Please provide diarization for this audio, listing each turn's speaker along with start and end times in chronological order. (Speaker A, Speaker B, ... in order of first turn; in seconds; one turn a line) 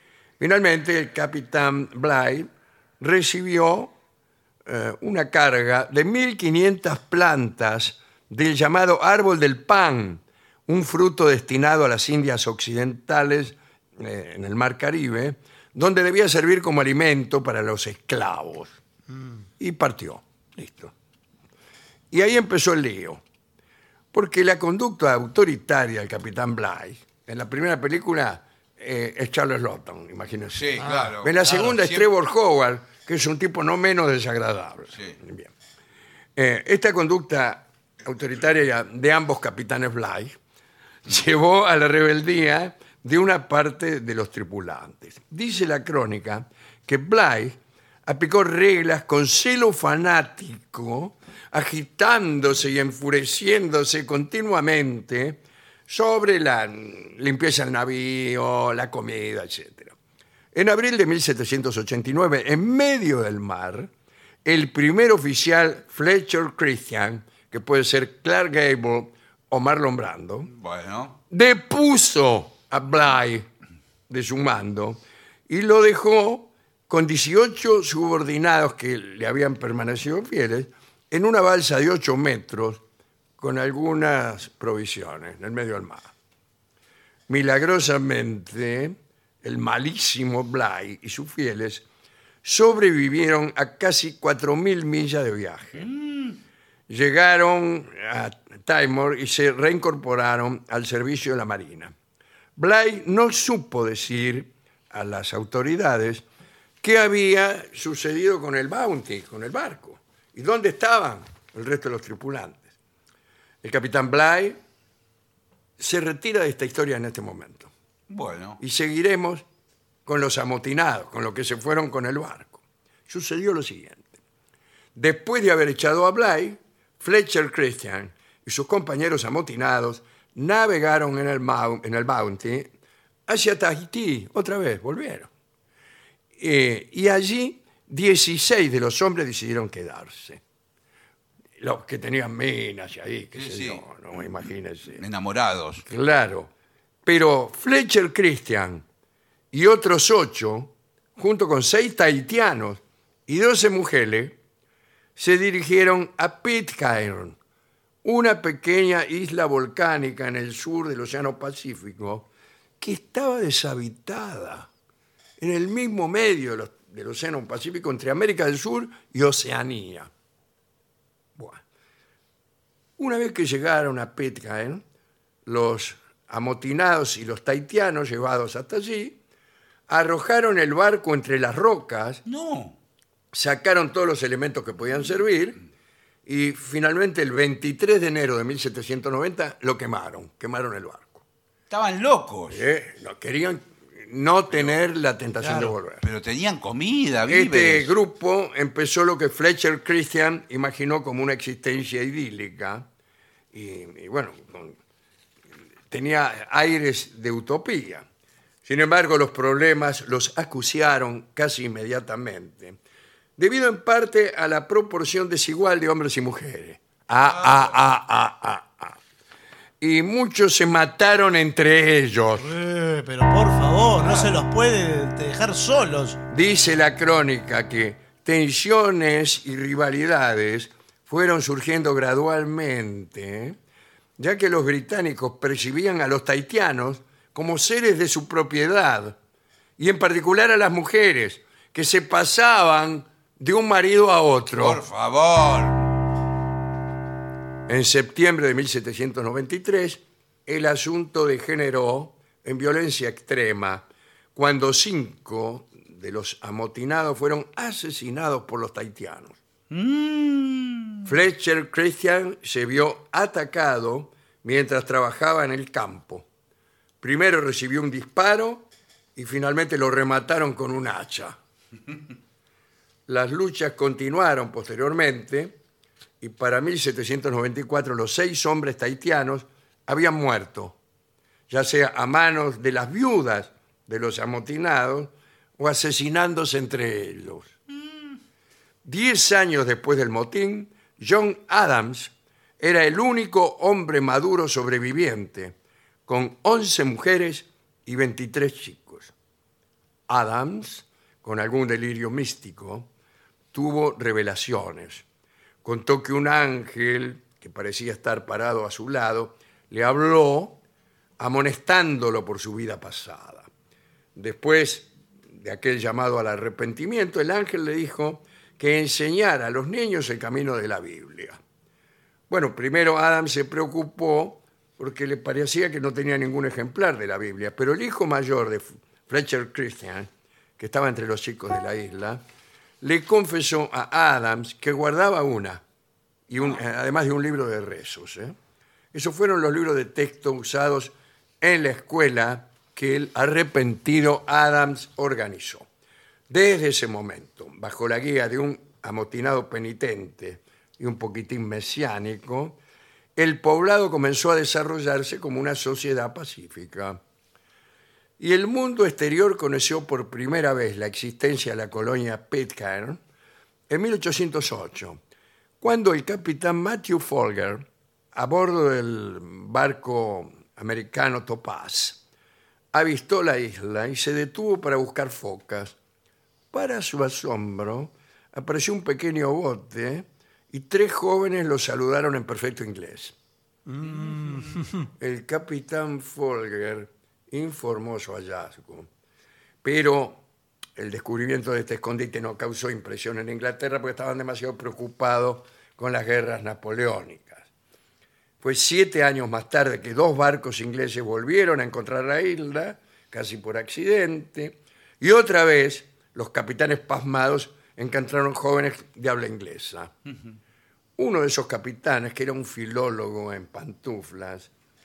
Speaker A: 0.4-2.5
Speaker A: 3.0-3.9
Speaker A: 4.7-18.8
Speaker A: 19.6-20.9
Speaker A: 22.1-23.2
Speaker A: 24.1-35.5
Speaker B: 30.6-32.0
Speaker C: 30.8-31.1
Speaker A: 36.4-40.4
Speaker A: 41.0-60.0
Speaker A: 60.5-63.9
Speaker A: 64.4-70.5
Speaker B: 70.5-71.2
Speaker A: 71.3-73.5
Speaker A: 74.1-82.8
Speaker A: 83.4-86.1
Speaker A: 87.3-91.8
Speaker A: 92.4-95.9
Speaker B: 95.8-96.4
Speaker A: 96.9-101.9
Speaker A: 102.6-106.2
Speaker A: 106.8-112.7
Speaker A: 113.6-114.6
Speaker A: 115.8-117.7
Speaker B: 118.1-118.6
Speaker A: 118.6-119.4
Speaker A: 120.1-124.1
Speaker A: 125.0-132.7
Speaker A: 133.3-135.3
Speaker A: 136.4-140.4
Speaker A: 141.6-145.0
Speaker B: 143.3-143.8
Speaker B: 145.0-145.8
Speaker A: 145.8-146.5
Speaker A: 147.1-148.8
Speaker A: 149.5-154.4
Speaker A: 155.2-157.4
Speaker A: 158.0-162.3
Speaker A: 162.8-164.7
Speaker A: 165.4-170.1
Speaker A: 171.4-171.6
Speaker A: 173.0-174.8
Speaker A: 175.5-179.2
Speaker A: 179.9-182.2
Speaker B: 182.3-182.8
Speaker A: 183.3-185.6
Speaker A: 186.3-191.2
Speaker B: 191.7-192.6
Speaker A: 192.5-196.0
Speaker B: 195.4-197.9
Speaker A: 197.3-202.9
Speaker A: 203.5-204.8
Speaker A: 205.9-208.1
Speaker A: 208.7-212.8
Speaker A: 213.4-219.0
Speaker A: 219.8-222.5
Speaker C: 222.4-226.2
Speaker A: 226.3-233.6
Speaker A: 234.2-239.2
Speaker A: 239.8-244.8
Speaker B: 244.6-245.9
Speaker A: 247.7-259.4
Speaker B: 259.7-261.1
Speaker A: 261.1-266.3
Speaker A: 267.0-271.4
Speaker A: 273.1-275.6
Speaker A: 276.2-280.8
Speaker A: 281.5-287.5
Speaker A: 288.8-295.6
Speaker A: 296.1-299.1
Speaker A: 300.1-302.9
Speaker A: 303.5-305.1
Speaker A: 305.6-310.6
Speaker A: 311.2-313.5
Speaker A: 314.1-321.4
Speaker A: 322.3-332.2
Speaker A: 332.8-335.6
Speaker A: 336.3-338.4
Speaker A: 338.9-345.7
Speaker A: 346.3-352.6
Speaker A: 353.2-357.0
Speaker A: 358.2-363.0
Speaker A: 363.7-365.0
Speaker A: 365.6-372.0
Speaker A: 372.7-375.8
Speaker A: 376.5-383.1
Speaker C: 383.7-384.9
Speaker A: 385.0-388.9
Speaker A: 389.6-390.2
Speaker A: 390.8-397.5
Speaker A: 398.4-409.9
Speaker A: 411.0-414.5